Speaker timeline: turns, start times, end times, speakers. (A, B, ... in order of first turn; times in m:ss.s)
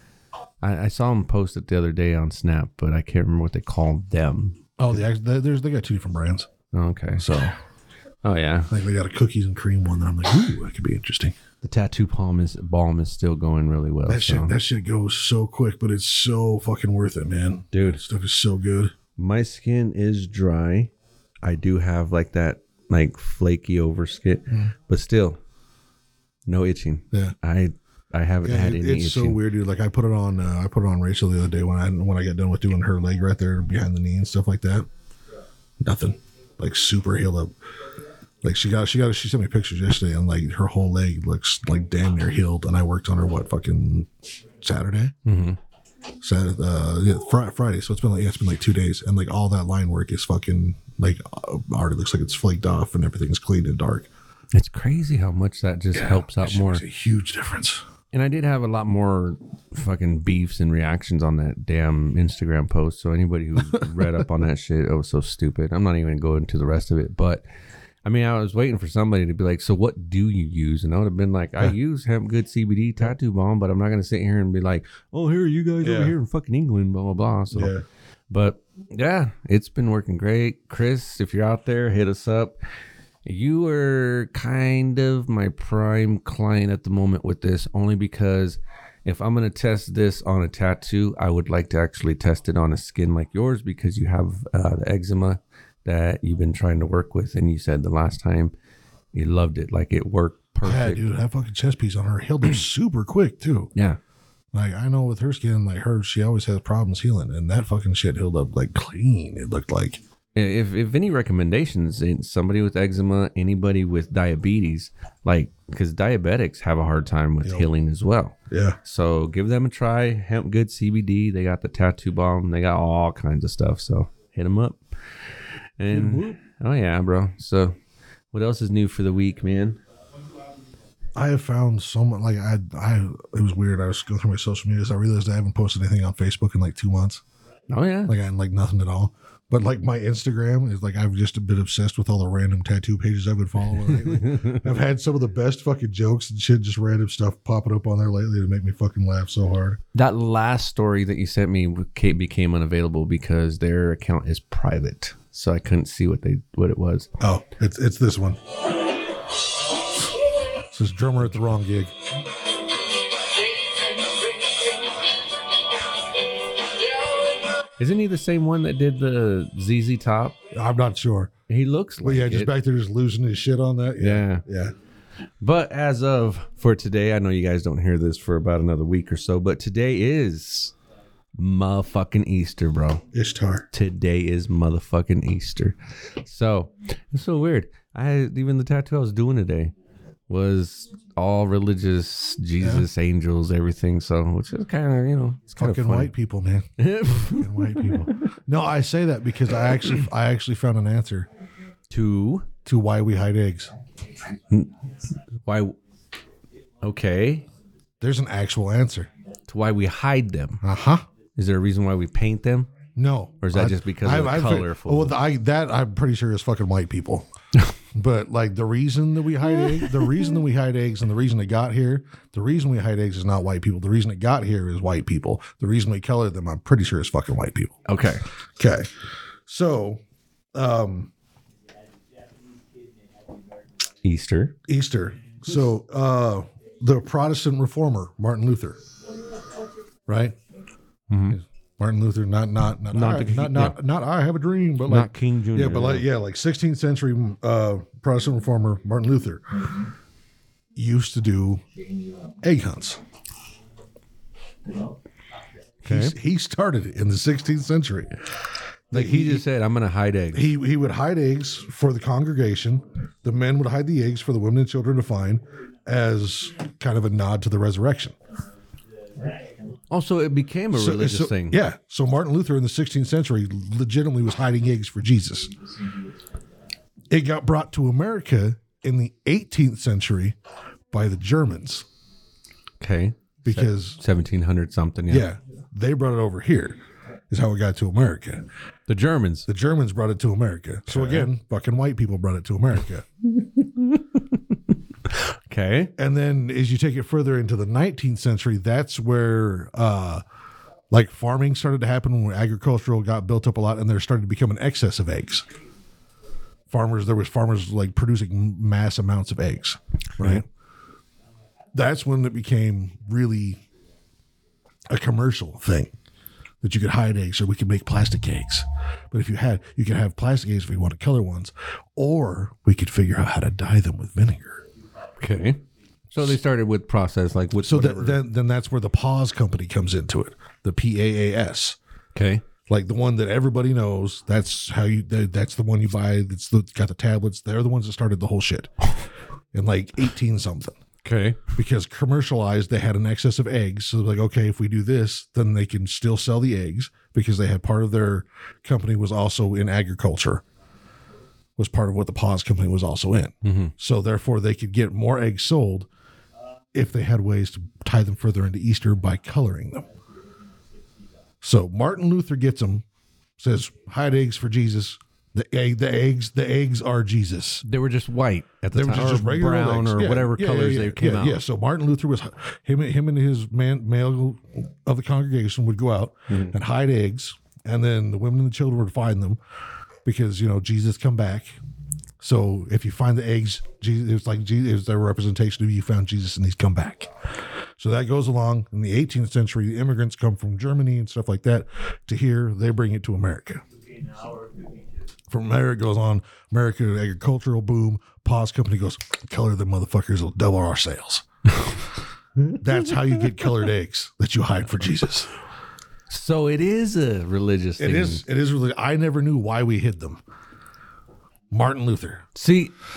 0:00.6-0:04.7 A
0:04.8-0:06.5 B
0:06.7-0:07.3 A
0:07.2-0:07.6 B
0:08.2-0:08.7 A
0:08.7-0:11.4 B
0:11.6-0:14.6 A
0:14.1-0:18.9 B
0:17.7-0:18.0 A
0:19.2-0:20.9 A
0:21.4-0:25.4 A
0:26.5-0:29.4 A
0:28.4-0:34.9 B
0:35.8-0:37.5 B
0:38.4-0:45.1 B
0:45.2-0:45.6 A
0:46.2-0:54.1 B
0:54.5-0:56.8 A
0:55.9-0:57.8 B
0:58.1-1:07.4 A
1:08.0-1:17.7 A
1:15.8-1:16.2 B
1:17.5-1:17.8 B
1:18.3-1:22.6 A
1:23.3-1:38.5 A
1:39.1-1:41.1 A
1:40.6-1:43.7 B
1:44.5-1:50.0 B
1:50.4-2:04.8 A
1:57.4-1:57.7 B
1:58.5-1:58.8 B
2:05.8-2:07.8 A
2:05.9-2:06.4 B
2:08.3-2:09.8 A
2:11.2-2:17.2 B
2:17.7-2:18.1 A
2:18.1-2:29.8 B
2:23.9-2:24.6 A
2:29.9-2:37.1 A
2:37.2-2:38.4 B
2:40.7-2:41.9 B
2:47.8-2:50.4 A
2:50.5-2:51.3 B
2:51.5-2:52.5 A
2:52.0-2:54.7 B
2:54.0-2:54.4 A
2:55.4-3:00.7 A
3:01.4-3:03.0 A
3:03.1-3:03.7 B
3:03.7-3:09.7 A
3:10.3-3:16.1 A
3:15.6-3:21.3 B
3:16.8-3:18.2 A
3:21.9-3:22.5 A
3:22.6-3:23.7 B
3:25.4-3:25.8 A
3:26.8-3:27.5 A
3:28.0-3:29.1 B
3:29.5-3:30.6 A
3:30.6-3:31.0 B
3:31.4-3:32.7 A
3:33.0-3:37.3 B
3:33.4-3:35.2 A
3:37.9-3:47.8 B
3:47.9-3:48.2 A
3:48.6-3:48.9 B
3:49.5-3:50.0 B
3:50.5-3:51.1 B
3:54.0-3:54.6 A
3:54.7-3:58.8 B
4:00.1-4:00.4 B
4:01.1-4:01.4 A
4:01.3-4:09.5 B
4:02.9-4:03.8 A
4:04.8-4:06.1 A
4:10.8-4:11.6 B
4:12.4-4:13.0 B
4:15.8-4:16.2 A
4:15.8-4:18.2 B
4:18.9-4:19.4 B
4:18.9-4:20.5 A
4:20.3-4:28.2 B
4:29.9-4:31.6 A
4:30.7-4:35.5 B
4:37.1-4:40.4 B
4:40.9-4:41.8 B
4:42.8-4:45.3 A
4:43.4-4:44.0 B
4:45.1-4:46.8 B
4:47.3-4:48.5 B
4:48.9-4:49.5 A
4:49.5-4:53.1 B
4:50.9-4:51.3 A
4:55.1-4:55.9 A
4:56.0-5:00.2 B
5:00.9-5:05.5 B
5:06.7-5:10.4 B
5:10.2-5:10.4 A
5:11.7-5:13.6 B
5:14.9-5:15.9 B
5:16.6-5:24.6 B
5:25.2-5:25.6 A
5:26.1-5:28.2 A
5:27.6-5:31.8 B
5:32.2-5:32.4 A
5:32.7-5:38.7 B
5:39.5-5:40.8 B
5:41.0-5:41.5 A
5:41.6-5:50.4 B
5:51.6-5:55.9 B
5:53.4-5:53.7 A
5:56.7-5:59.9 B
6:01.4-6:02.8 B
6:03.4-6:07.6 B
6:07.6-6:11.4 A
6:08.7-6:19.4 B
6:16.3-6:16.6 A
6:20.0-6:21.6 B
6:22.2-6:27.1 B
6:27.8-6:33.6 B
6:35.3-6:41.3 B
6:42.6-6:45.3 B
6:46.1-6:48.2 A
6:47.8-6:50.2 B
6:51.5-6:52.2 B
6:52.4-6:52.7 A